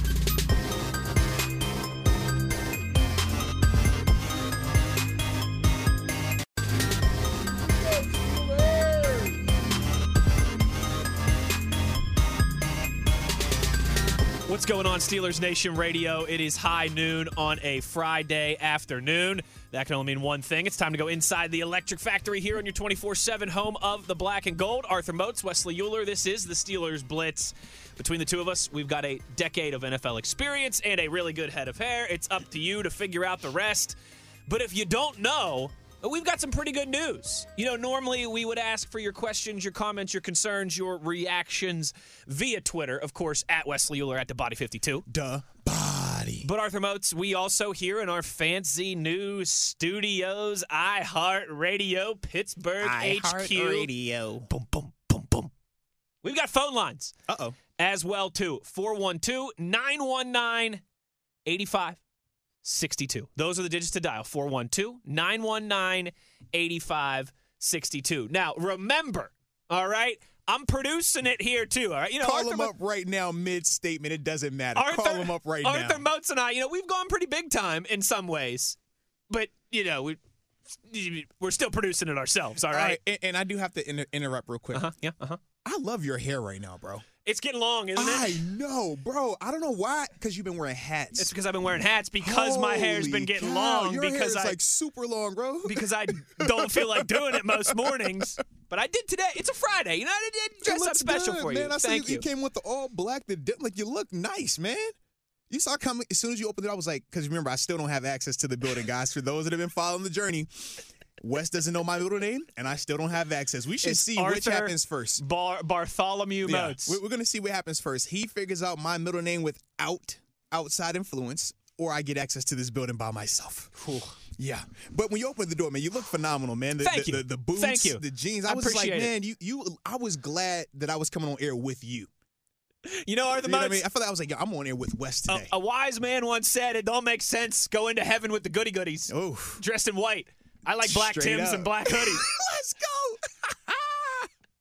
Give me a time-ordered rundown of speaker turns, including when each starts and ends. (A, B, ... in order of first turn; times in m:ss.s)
0:14.4-0:34.0 A
0:34.5-0:45.0 A
0:45.1-0:46.5 B
0:46.4-0:53.9 A
0:52.8-0:54.5 B
0:54.5-0:55.5 A
0:56.2-0:57.1 A
0:57.3-0:57.6 B
0:57.8-1:00.8 A
1:01.4-1:02.0 A
1:02.6-1:12.7 A
1:12.2-1:16.0 B
1:14.7-1:18.8 A
1:19.3-1:20.2 A
1:20.7-1:23.0 A
1:22.6-1:24.9 B
1:24.7-1:25.4 A
1:25.6-1:27.0 B
1:27.2-1:28.4 A
1:27.9-1:31.3 B
1:31.2-1:34.6 A
1:32.2-1:38.2 B
1:35.6-1:42.2 A
1:40.6-1:44.9 B
1:45.5-1:55.2 B
1:53.8-1:57.0 A
1:56.4-2:03.7 B
2:03.8-2:04.2 A
2:04.3-2:12.1 B
2:06.8-2:09.1 A
2:12.8-2:13.8 A
2:13.4-2:15.5 B
2:15.3-2:22.3 A
2:19.1-2:19.6 B
2:20.8-2:24.2 B